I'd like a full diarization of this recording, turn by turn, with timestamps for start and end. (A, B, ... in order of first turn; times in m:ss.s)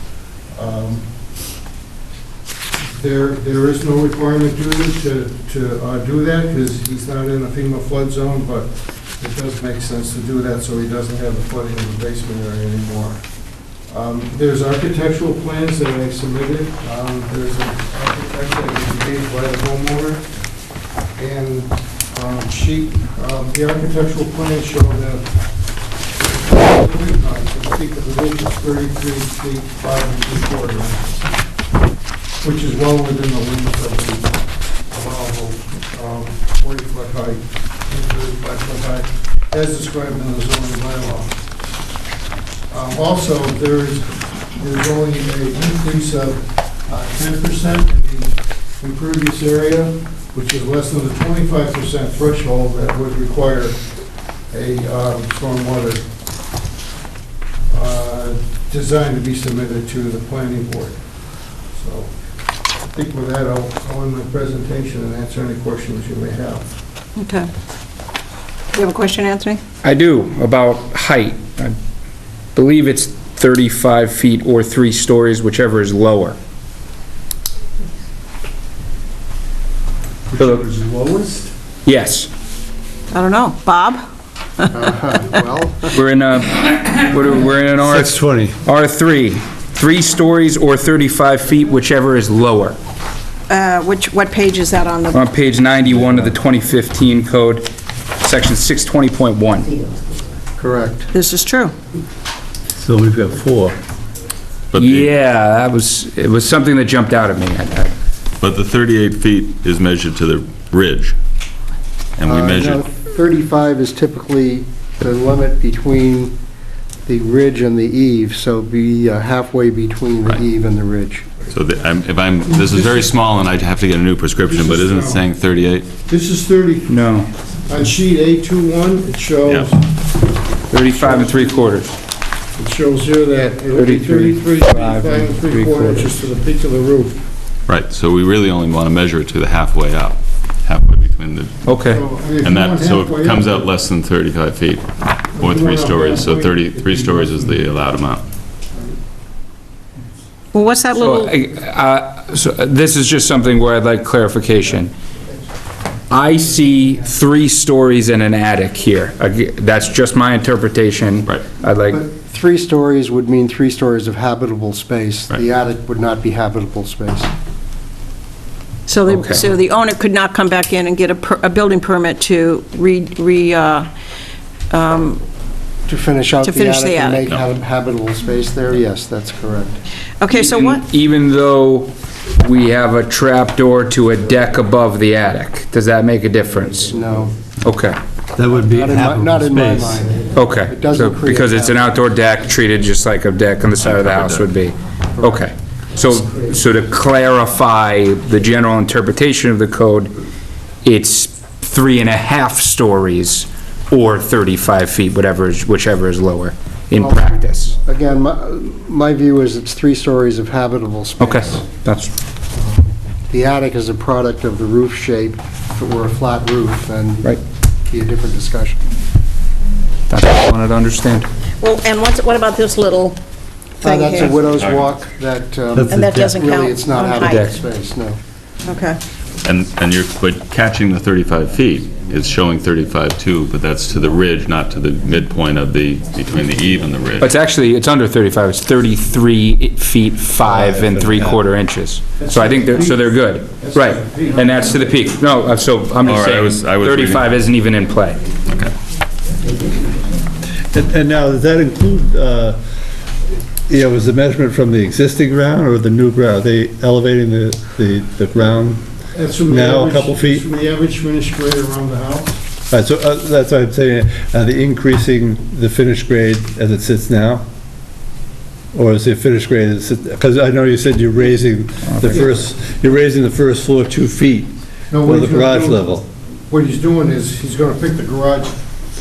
0:00.5-0:01.1 A
0:02.8-0:13.3 A
0:13.8-0:20.3 A
0:21.2-0:25.3 A
0:26.3-0:31.2 A
0:32.4-0:41.4 A
0:42.7-0:53.8 A
0:54.5-0:56.0 A
0:57.7-1:01.0 A
1:01.7-1:02.1 A
1:02.8-1:06.7 A
1:07.2-1:07.5 B
1:08.7-1:09.6 B
1:09.8-1:11.7 C
1:12.5-1:16.4 C
1:20.3-1:21.5 A
1:21.8-1:22.3 C
1:23.1-1:24.0 B
1:24.7-1:25.9 D
1:25.9-1:32.8 C
1:27.8-1:28.6 E
1:33.5-1:35.3 B
1:35.1-1:39.7 C
1:40.6-1:41.1 D
1:41.1-1:41.7 B
1:42.8-1:43.8 E
1:44.7-1:45.1 F
1:44.8-1:47.9 C
1:48.4-1:51.1 F
1:52.2-1:52.8 F
1:52.2-1:56.3 D
1:57.0-2:01.3 D
2:01.5-2:05.9 F
2:02.6-2:03.0 A
2:04.4-2:05.2 A
2:06.1-2:07.0 A
2:06.9-2:07.3 C
2:07.6-2:09.9 A
2:10.7-2:11.9 C
2:10.9-2:11.8 A
2:12.6-2:17.2 A
2:13.7-2:16.1 C
2:17.7-2:28.2 F
2:21.6-2:22.0 C
2:21.8-2:23.7 A
2:25.3-2:27.6 A
2:28.7-2:29.0 A
2:30.5-2:31.3 B
2:30.9-2:34.9 C
2:36.1-2:42.0 C
2:41.9-2:47.3 D
2:48.9-2:53.9 B
2:49.0-2:49.4 C
2:54.7-2:55.2 B
2:55.8-2:59.8 D
2:56.4-2:57.3 B
3:00.2-3:00.8 B
3:00.3-3:07.0 C
3:06.9-3:07.3 D
3:07.6-3:08.0 C
3:08.3-3:10.0 E
3:08.7-3:11.9 D
3:10.3-3:20.1 C
3:13.8-3:14.5 F
3:15.2-3:15.5 D
3:20.8-3:27.7 C
3:27.0-3:31.7 D
3:31.2-3:32.1 C
3:32.6-3:38.8 D
3:40.1-3:41.3 C
3:41.6-3:43.2 B
3:43.8-3:44.6 B
3:43.8-3:48.2 D
3:44.2-3:45.0 F
3:45.7-3:46.3 E
3:45.9-3:47.6 B
3:48.6-3:49.0 B
3:49.4-3:57.3 F
3:57.2-4:08.2 C
4:00.4-4:01.4 E
4:02.2-4:05.0 A
4:06.0-4:07.4 F
4:10.6-4:12.6 E
4:13.3-4:20.4 E
4:19.1-4:22.4 A
4:22.7-4:27.4 E
4:28.7-4:36.0 E
4:31.8-4:32.3 C
4:32.0-4:32.3 A
4:34.9-4:35.9 A
4:36.5-4:38.6 A